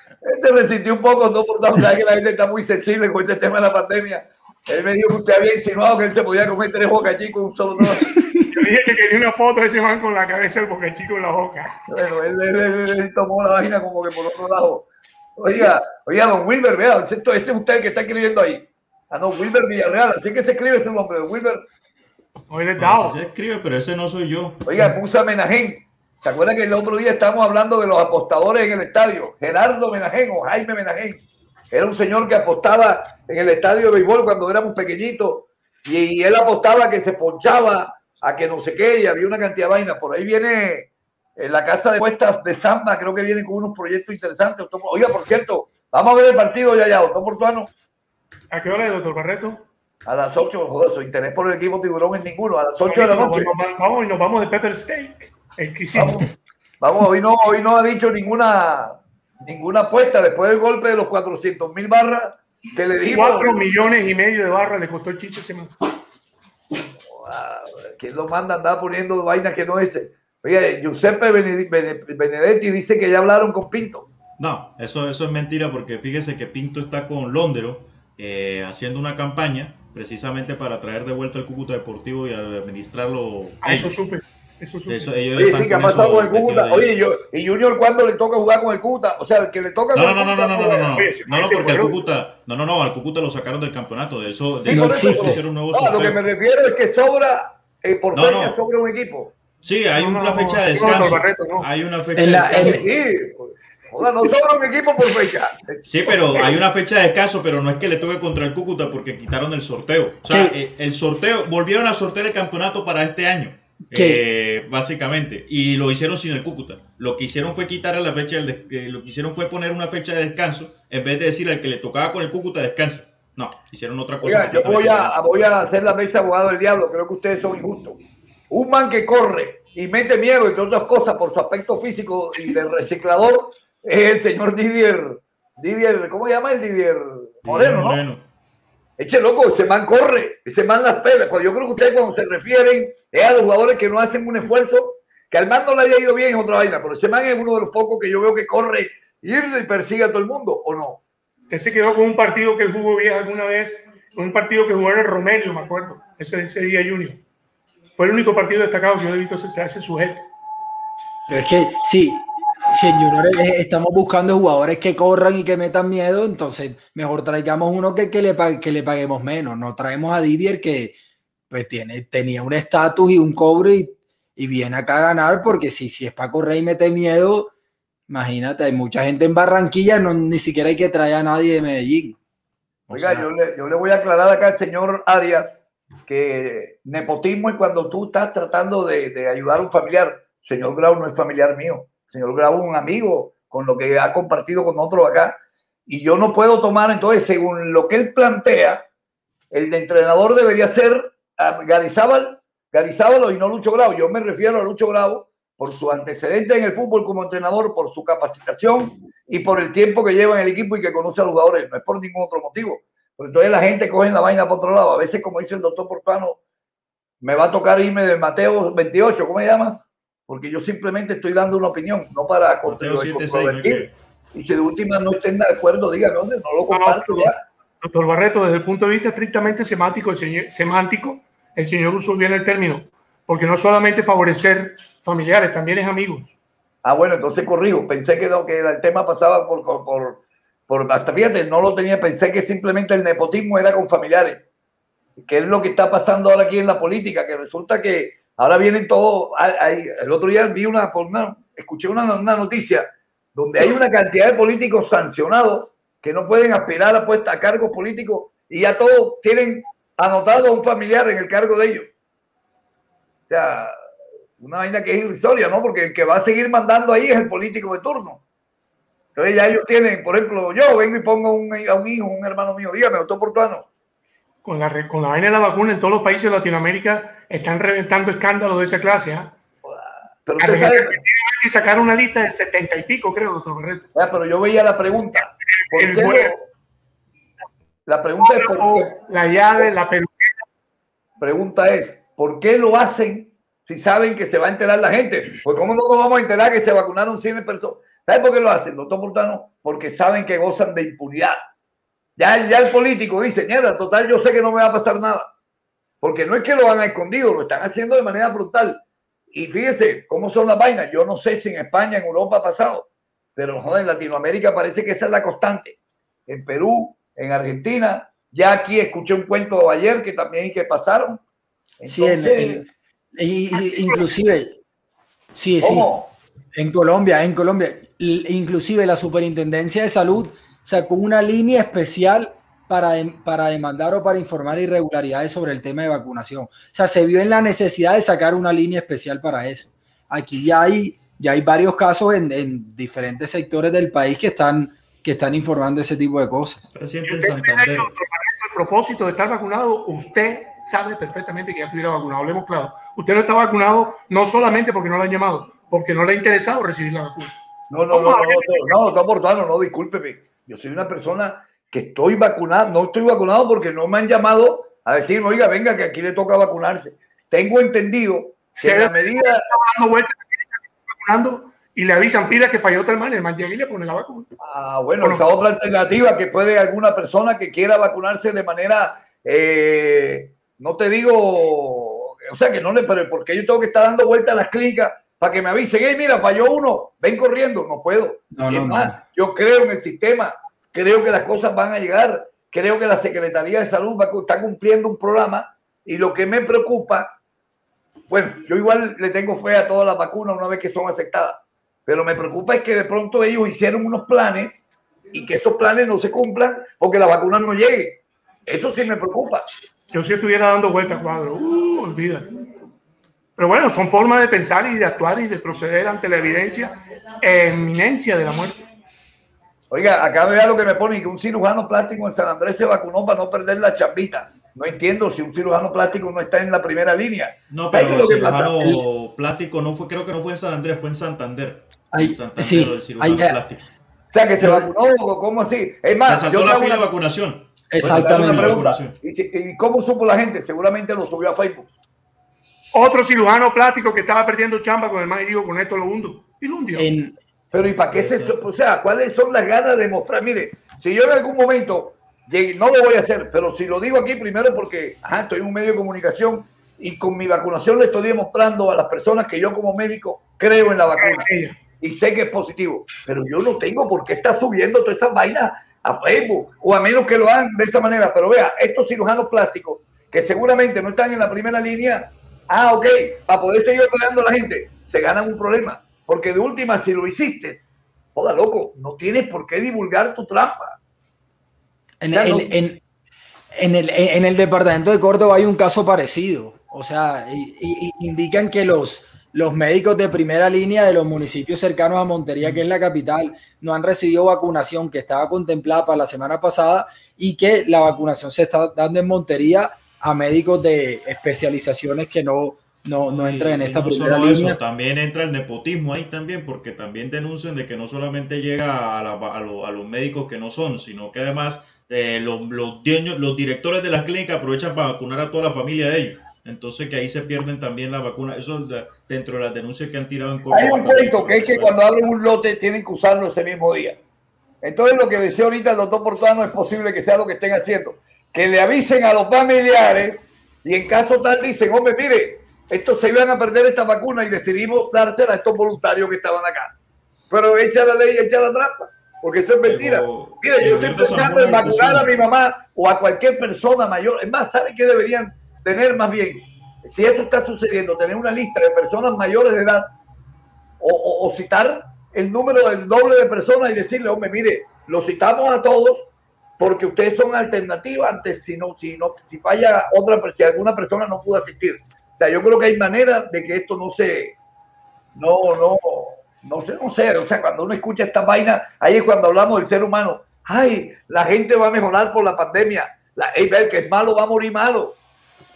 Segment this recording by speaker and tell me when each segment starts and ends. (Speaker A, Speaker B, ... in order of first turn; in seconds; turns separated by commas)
Speaker A: 0.2-8.1, Speaker B: 8.5-11.8, Speaker A: 11.9-21.6, Speaker B: 22.5-23.2, Speaker C: 22.8-24.8, Speaker A: 24.7-47.7, Speaker B: 48.5-49.6, Speaker A: 50.1-53.6, Speaker B: 52.9-56.2, Speaker A: 55.9-56.3, Speaker A: 56.8-63.7, Speaker B: 63.1-65.8, Speaker A: 67.1-74.1, Speaker C: 74.4-84.0, Speaker B: 83.6-85.1, Speaker C: 84.9-86.9, Speaker A: 85.4-91.0, Speaker C: 90.0-96.2, Speaker B: 91.0-92.0, Speaker D: 94.7-95.4, Speaker A: 94.7-99.3, Speaker C: 98.1-98.6, Speaker C: 99.6-102.8, Speaker B: 100.0-101.7, Speaker D: 102.2-102.8, Speaker A: 102.4-106.5, Speaker C: 105.8-125.2, Speaker D: 110.3-110.6, Speaker D: 113.9-114.2, Speaker A: 124.2-128.0, Speaker A: 128.5-138.0, Speaker C: 137.4-138.2, Speaker A: 139.0-151.0, Speaker B: 151.5-157.2, Speaker B: 157.9-160.3, Speaker D: 161.3-171.0, Speaker D: 171.5-177.5, Speaker D: 178.1-182.2, Speaker D: 182.9-183.3, Speaker A: 182.9-198.9, Speaker A: 199.5-216.4, Speaker A: 217.2-227.4, Speaker C: 222.7-223.9, Speaker B: 226.7-236.4, Speaker A: 236.8-244.4, Speaker A: 245.2-261.9, Speaker A: 263.3-263.8, Speaker A: 264.4-268.2, Speaker A: 269.2-273.7, Speaker B: 274.4-279.3, Speaker A: 279.6-281.0, Speaker B: 280.4-283.9, Speaker A: 283.9-286.4, Speaker B: 285.7-286.3, Speaker A: 287.9-289.0, Speaker B: 288.2-290.3, Speaker A: 291.2-301.4, Speaker A: 302.2-305.3, Speaker A: 306.0-308.8, Speaker A: 309.3-321.2, Speaker A: 321.8-322.6, Speaker D: 321.9-324.6, Speaker B: 323.5-324.1, Speaker D: 325.4-325.9, Speaker A: 325.6-326.1, Speaker D: 326.6-346.6, Speaker C: 346.7-347.9, Speaker B: 347.1-357.3, Speaker A: 357.7-369.5, Speaker B: 357.9-358.9, Speaker B: 368.5-374.3, Speaker A: 374.4-397.1, Speaker D: 388.3-389.0, Speaker A: 398.1-404.6, Speaker A: 405.1-409.5, Speaker B: 409.9-412.3, Speaker B: 413.4-418.6, Speaker A: 419.7-428.8, Speaker C: 427.5-433.6, Speaker D: 431.9-433.4, Speaker A: 434.1-436.9, Speaker D: 434.4-434.7, Speaker C: 436.1-438.9, Speaker D: 437.7-438.6, Speaker A: 437.8-441.7, Speaker B: 442.7-446.9, Speaker D: 446.8-447.1, Speaker A: 447.5-461.3, Speaker B: 461.0-461.6, Speaker A: 461.8-477.6, Speaker A: 478.1-480.8, Speaker D: 482.0-482.8, Speaker A: 482.1-482.5, Speaker D: 483.6-504.6, Speaker C: 503.1-521.8, Speaker A: 520.5-524.0, Speaker A: 524.6-536.7, Speaker A: 537.3-549.9, Speaker C: 539.6-542.1, Speaker A: 550.8-564.4, Speaker A: 565.2-575.0